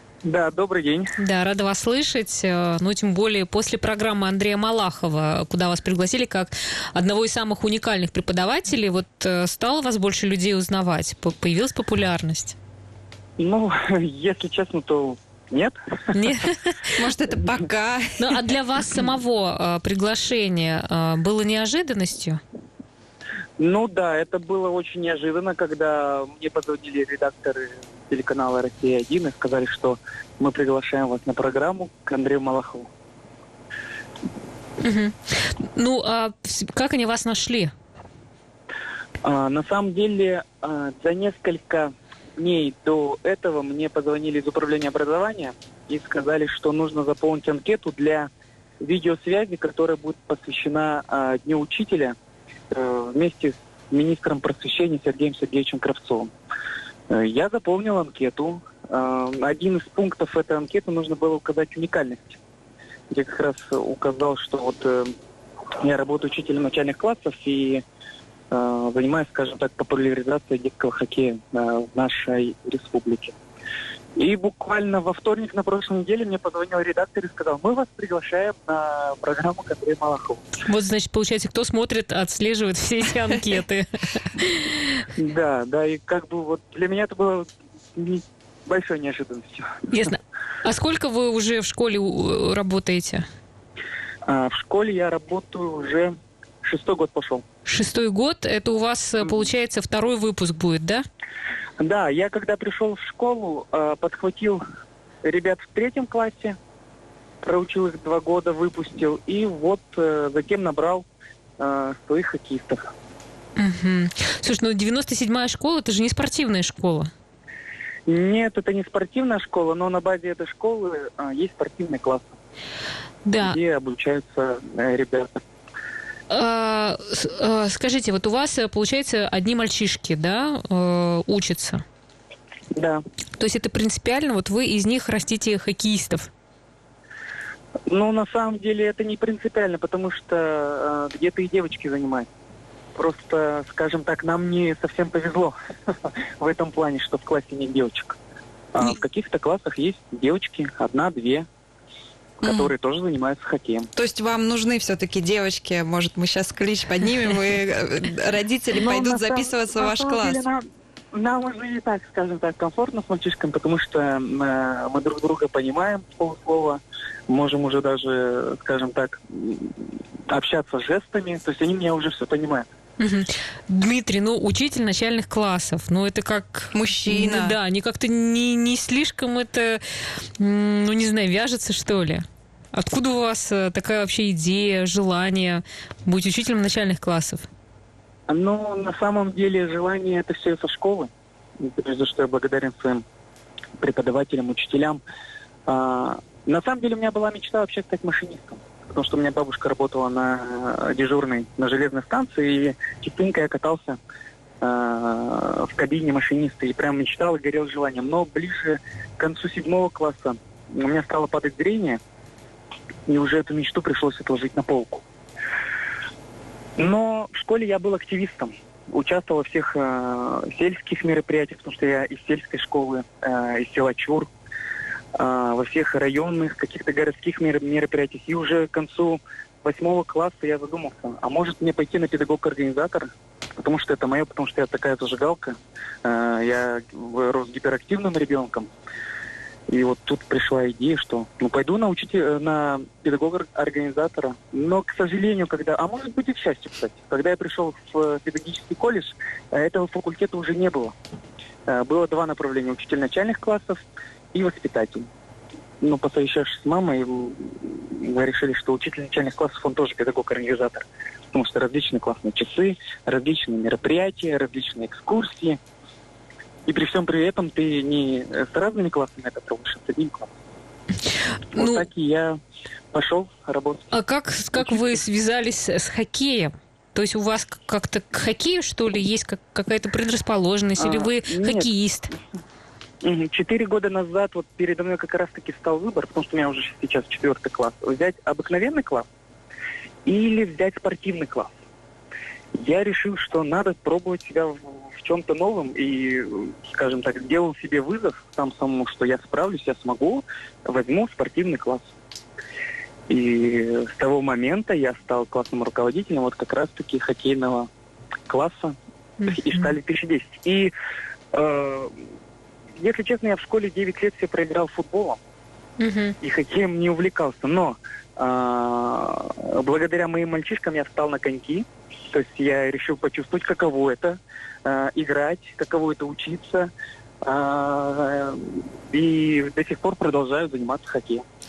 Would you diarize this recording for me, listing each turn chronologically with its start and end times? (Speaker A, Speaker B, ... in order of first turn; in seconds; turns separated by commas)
Speaker A: 0.2-1.1, Speaker B: 1.2-12.6, Speaker A: 13.4-16.2, Speaker B: 16.1-17.0, Speaker C: 16.9-18.3, Speaker B: 18.2-22.4, Speaker A: 23.6-32.9, Speaker B: 34.8-37.7, Speaker A: 39.2-48.3, Speaker A: 48.8-52.1, Speaker A: 52.7-56.3, Speaker A: 57.1-62.4, Speaker A: 63.1-65.1, Speaker A: 65.8-67.8, Speaker A: 68.5-73.3, Speaker A: 74.2-80.5, Speaker B: 80.6-85.0, Speaker A: 85.1-89.9, Speaker B: 89.9-93.2, Speaker A: 94.2-96.1, Speaker A: 96.6-97.4, Speaker B: 97.7-101.0, Speaker A: 101.8-104.6, Speaker A: 105.2-106.6, Speaker A: 107.4-111.0, Speaker A: 111.6-112.8, Speaker B: 113.6-117.1, Speaker A: 118.1-122.3, Speaker B: 123.2-123.6, Speaker A: 123.4-125.3, Speaker B: 126.3-131.8, Speaker A: 132.8-133.0, Speaker B: 133.4-136.3, Speaker A: 137.9-142.3, Speaker A: 142.9-148.2, Speaker A: 148.7-151.4, Speaker A: 152.4-153.9, Speaker C: 152.4-152.7, Speaker C: 153.9-160.4, Speaker A: 158.7-172.7, Speaker B: 173.0-179.8, Speaker C: 176.7-177.6, Speaker B: 180.4-187.5, Speaker A: 188.3-193.0, Speaker A: 193.8-195.0, Speaker A: 195.7-204.0, Speaker A: 204.6-212.0, Speaker A: 213.1-215.0, Speaker A: 216.8-224.3, Speaker A: 225.2-238.7, Speaker A: 239.7-250.9, Speaker A: 251.7-253.8, Speaker A: 254.3-255.1, Speaker A: 255.8-265.6, Speaker A: 266.7-270.3, Speaker B: 271.5-271.9, Speaker A: 271.5-272.4, Speaker A: 272.9-273.9, Speaker B: 273.9-282.1, Speaker A: 280.8-281.7, Speaker A: 283.0-289.1, Speaker A: 290.1-291.5, Speaker A: 292.6-301.9, Speaker A: 303.1-307.7, Speaker A: 308.3-310.7, Speaker A: 311.3-311.9, Speaker A: 312.8-315.2, Speaker B: 315.8-316.1, Speaker A: 316.2-326.7, Speaker A: 327.2-331.2